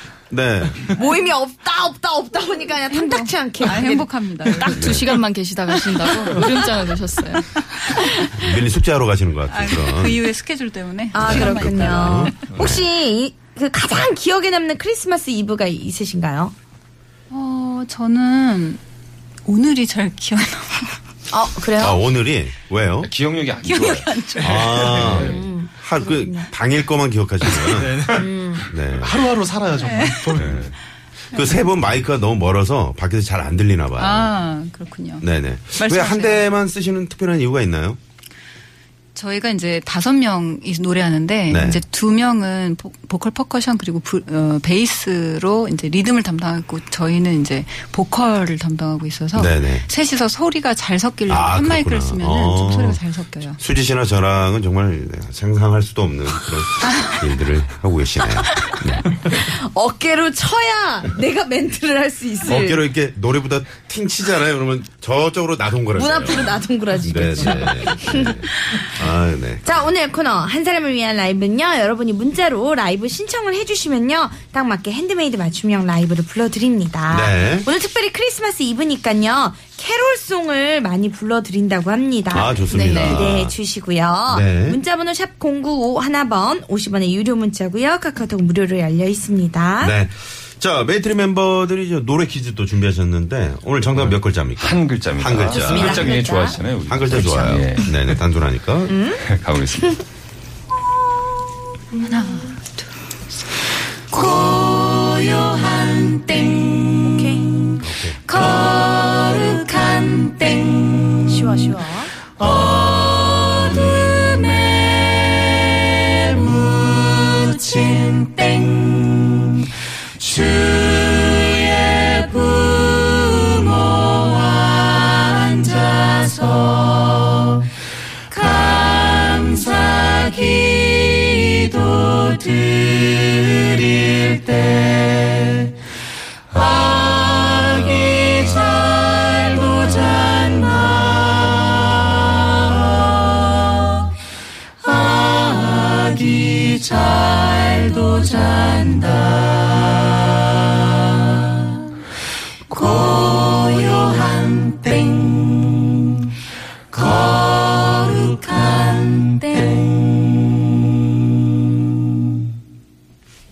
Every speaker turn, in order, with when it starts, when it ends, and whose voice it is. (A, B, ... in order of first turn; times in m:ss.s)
0:00.3-0:00.9 A
0:00.9-0:04.7 B
0:02.9-0:04.7 C
0:04.5-0:07.5 D
0:04.7-0:05.2 A
0:08.4-0:10.2 A
0:09.5-0:12.3 C
0:11.1-0:16.5 B
0:11.2-0:12.9 A
0:12.5-0:12.8 E
0:17.3-0:18.8 C
0:19.4-0:20.9 C
0:21.3-0:22.0 B
0:21.8-0:23.1 A
0:23.0-0:25.4 E
0:23.7-0:24.8 C
0:24.4-0:28.1 A
0:25.1-0:26.5 B
0:27.6-0:28.3 F
0:28.1-0:28.6 B
0:28.7-0:29.3 A
0:28.9-0:30.7 F
0:29.8-0:30.3 C
0:30.4-0:30.7 E
0:31.3-0:34.3 A
0:34.0-0:36.4 C
0:35.2-0:38.0 A
0:39.1-0:53.6 C
0:41.5-0:41.8 A
0:49.3-0:49.9 A
0:51.3-0:53.0 A
0:53.6-0:59.1 A
0:59.2-1:02.8 B
1:02.5-1:09.9 A
1:05.9-1:08.8 B
1:09.6-1:30.0 B
1:17.1-1:17.7 A
1:22.3-1:23.6 A
1:24.3-1:24.8 A
1:29.8-1:36.1 A
1:34.0-1:38.0 E
1:35.4-1:36.6 B
1:36.8-1:39.0 A
1:37.1-1:37.5 B
1:38.9-1:39.2 B
1:39.2-1:40.0 E
1:42.1-1:42.5 C
1:44.1-1:47.1 G
1:47.0-1:47.5 B
1:47.8-1:48.2 A
1:48.3-1:51.3 G
1:51.3-1:52.1 B
1:52.4-1:59.5 G
2:00.2-2:07.6 G
2:08.3-2:15.7 G
2:16.5-2:23.9 G
2:24.8-2:30.2 G
2:32.7-2:35.9 G
2:36.9-2:40.0 G